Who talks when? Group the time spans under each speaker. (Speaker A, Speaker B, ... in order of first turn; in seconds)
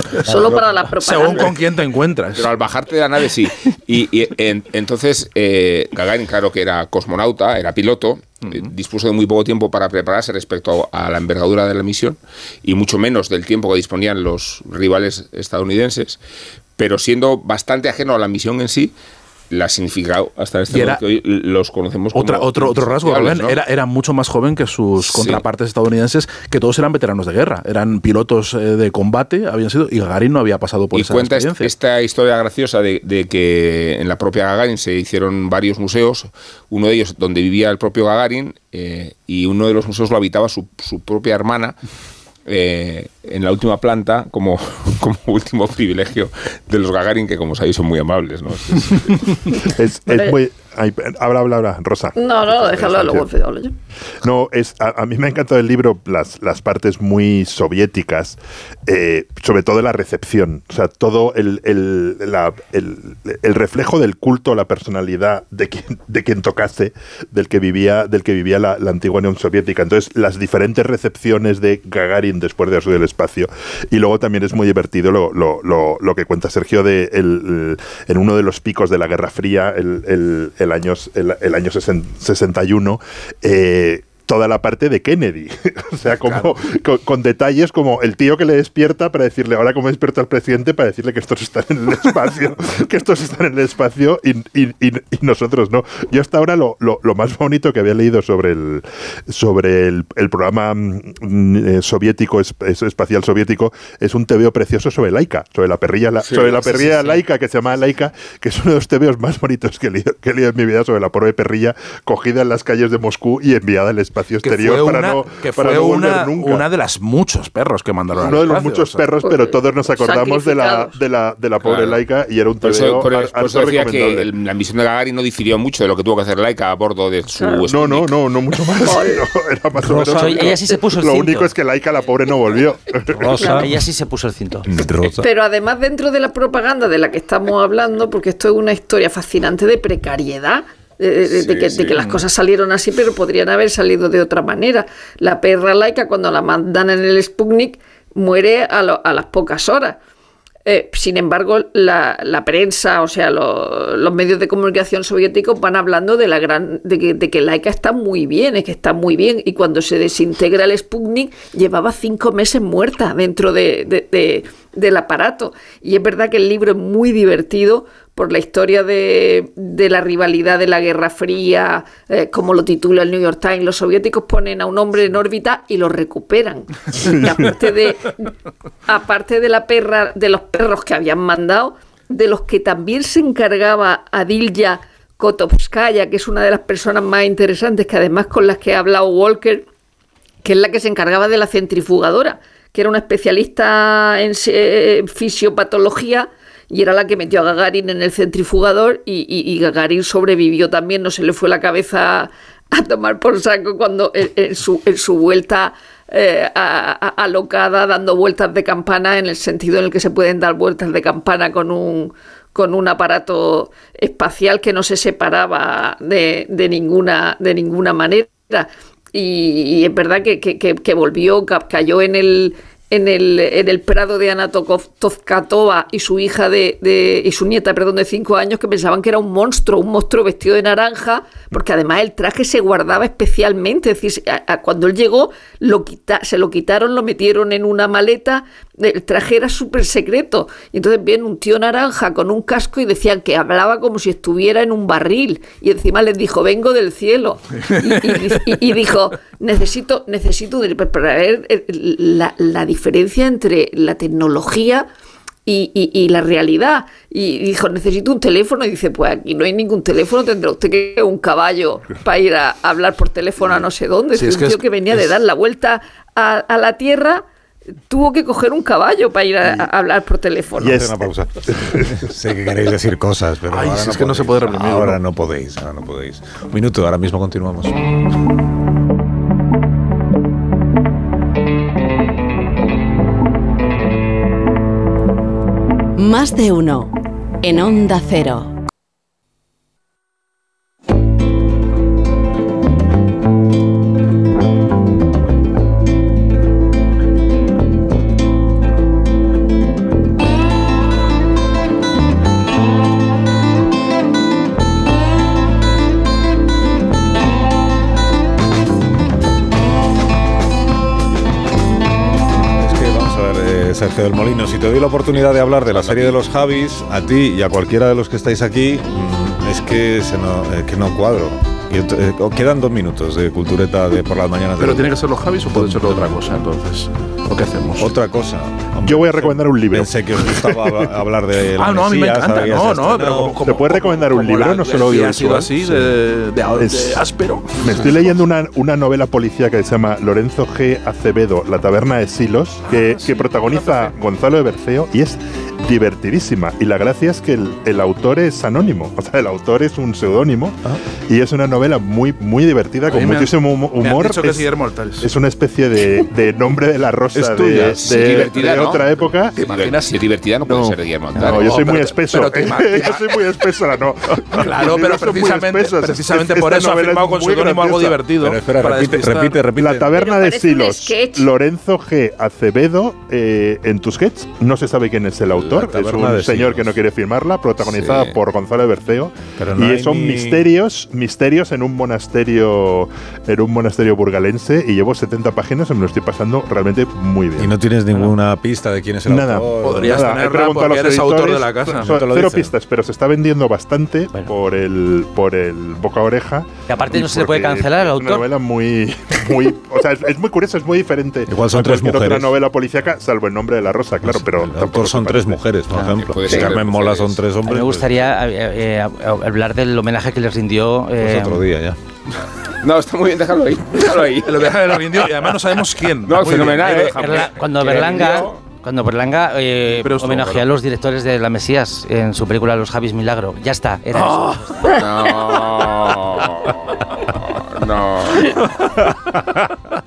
Speaker A: 0.2-1.5, 50.1-50.4, 52.1-53.7, 119.1-121.0, 127.4-127.7, 128.8-129.3, 133.4-133.7, 135.2-150.0, 150.7-178.3, 178.9-189.7, 190.4-254.9, 255.5-267.2, 267.9-270.9, 369.9-371.3
Speaker B: 0.9-2.5, 20.7-21.0, 22.1-31.7, 114.4-119.0, 264.1-265.2, 273.5-275.0, 324.6-327.9, 331.6-337.9, 342.7-343.9, 352.9-355.1, 359.4-359.9, 361.1-363.2, 364.3-369.5, 389.6-391.9, 414.2-418.3, 419.7-420.5, 423.9-425.1
Speaker C: 2.4-16.2, 16.8-18.9, 19.5-23.6, 25.0-25.4, 30.9-41.8, 42.5-49.4, 106.2-106.7, 121.6-122.0, 122.6-128.1, 141.3-142.0, 315.1-316.2, 357.8-358.8, 359.4-361.5, 377.6-378.2, 406.0-407.2, 412.6-414.8, 416.1-418.4, 424.8-428.4
Speaker D: 49.6-53.3, 54.2-116.7, 118.2-124.3, 127.7-133.6, 270.6-272.0, 328.8-330.9, 333.4-335.9, 336.6-337.0, 337.6-354.5, 355.0-359.4, 360.5-368.0, 369.5-387.5, 389.1-405.4
Speaker E: 106.8-107.2, 129.8-131.5, 133.4-134.7, 396.7-398.3, 405.8-406.5, 407.5-411.4, 416.8-424.8
Speaker F: 129.9-130.4, 133.1-133.7, 134.7-135.2, 270.6-277.9, 312.4-324.9, 325.5-326.2, 327.8-333.4, 357.1-357.9, 368.2-369.9, 375.3-376.8, 379.4-380.4, 387.4-390.0, 391.8-392.5, 401.3-402.4, 404.0-408.1, 411.0-411.8, 428.6-429.6
Speaker G: 286.0-288.5